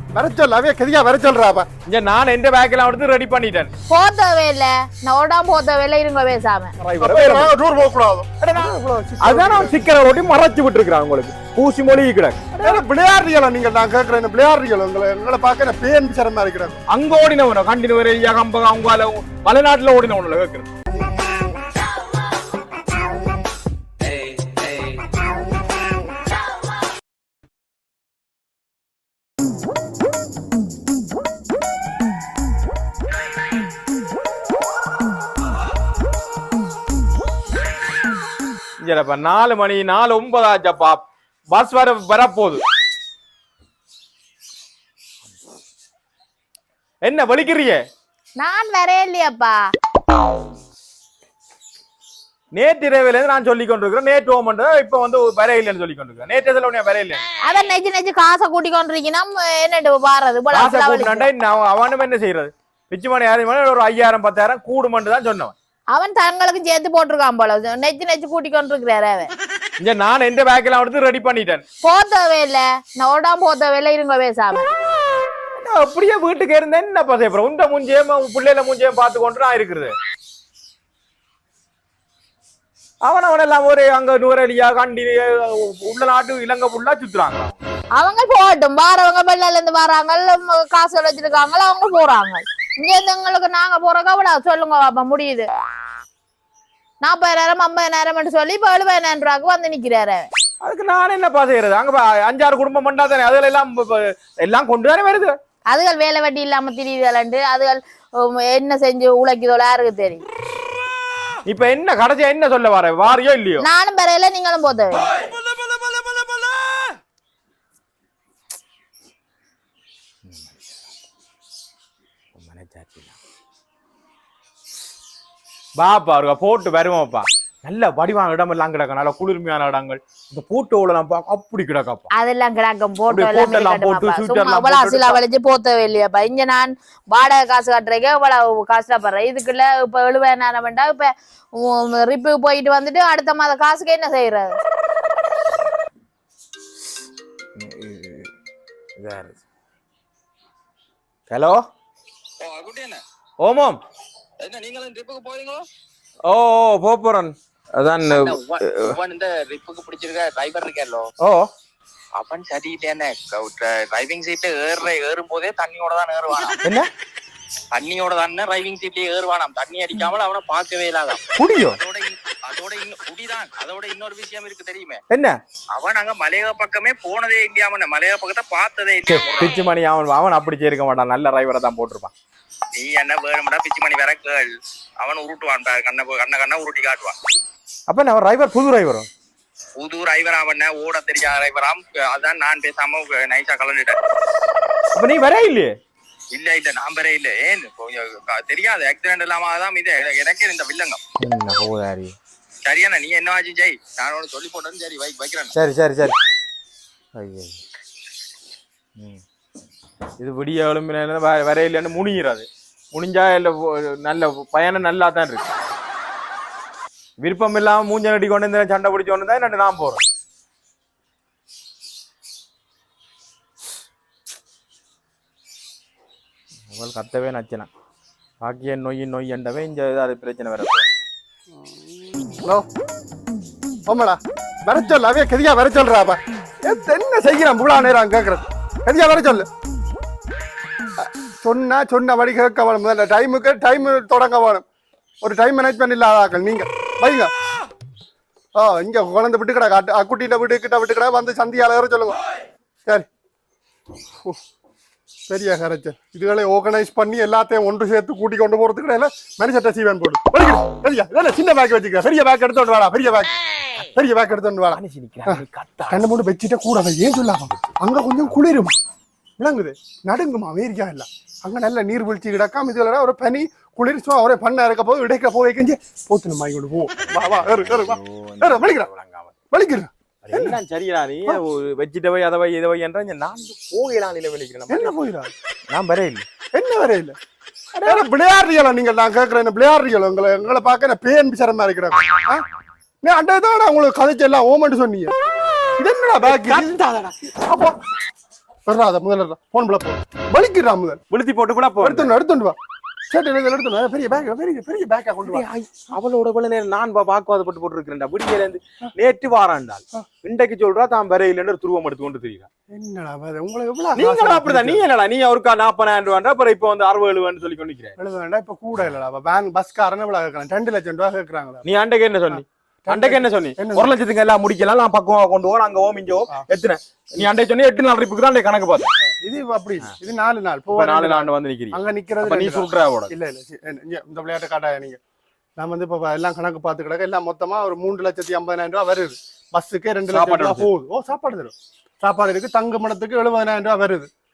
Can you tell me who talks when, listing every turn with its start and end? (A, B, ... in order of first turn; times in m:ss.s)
0:00.1-0:01.7 A
0:01.9-0:03.7 B
0:03.9-0:06.7 C
0:06.8-0:07.5 B
0:07.0-0:09.9 A
0:08.4-0:12.8 B
0:12.6-0:16.8 A
0:16.9-0:20.7 B
0:38.8-0:42.6 B
0:47.0-0:47.8 B
0:48.4-0:49.6 C
0:52.5-0:57.2 B
0:57.4-1:01.3 C
1:00.5-1:05.5 B
1:05.9-1:09.3 C
1:09.8-1:11.6 B
1:11.8-1:14.7 C
1:15.6-1:19.9 B
1:23.0-1:27.6 B
1:28.0-1:35.5 C
1:37.0-1:40.3 C
1:40.6-1:45.4 B
1:45.7-1:50.2 C
1:51.5-1:53.6 B
1:53.6-1:55.0 C
2:00.3-2:00.6 B
2:02.4-2:03.2 B
2:05.8-2:12.1 B
2:12.1-2:24.5 C
2:13.1-2:15.2 B
2:27.6-2:28.3 B
2:29.0-2:29.4 B
2:31.3-2:31.6 B
2:32.4-2:33.0 D
2:33.4-2:33.8 B
2:34.4-2:35.7 D
2:36.3-2:38.9 B
2:38.1-2:41.1 D
2:41.2-2:41.5 B
2:42.2-2:46.6 D
2:46.6-2:46.9 B
2:47.7-2:55.0 D
2:51.4-2:51.8 B
2:55.1-2:55.4 B
2:55.7-2:59.6 D
2:59.1-3:02.1 B
3:02.7-3:07.2 D
3:07.9-3:09.1 B
3:09.8-3:14.0 D
3:15.0-3:15.7 B
3:16.3-3:21.0 D
3:21.2-3:22.2 B
3:22.6-3:25.5 D
3:25.5-3:26.1 B
3:27.2-3:27.6 B
3:30.2-3:35.5 B
3:37.2-3:40.1 B
3:46.7-3:47.7 B
3:48.4-3:50.9 B
3:51.5-3:52.7 A
3:53.9-3:59.5 A
4:01.4-4:04.6 A
4:05.2-4:07.3 A
4:08.6-4:12.2 A
4:15.3-4:28.7 A
4:24.7-4:26.1 B
4:29.4-4:38.9 A
4:37.1-4:39.3 B
4:39.5-4:40.6 A
4:40.2-4:44.9 B
4:44.7-4:45.3 A
4:45.7-4:46.2 B
4:46.5-4:47.2 A
4:47.8-4:52.4 A
4:53.0-4:55.1 A
4:55.8-4:56.8 A
4:56.2-4:57.2 B
4:57.3-4:57.7 A
4:58.7-5:01.0 A
5:01.1-5:02.1 B
5:01.8-5:02.6 A
5:03.1-5:05.4 A
5:05.2-5:12.5 B
5:12.7-5:14.9 A
5:14.0-5:18.0 B
5:18.0-5:21.7 A
5:21.6-5:28.9 B
5:22.3-5:23.9 A
5:29.0-5:35.0 A
5:30.7-5:33.1 B
5:35.6-5:44.1 A
5:40.1-5:40.7 B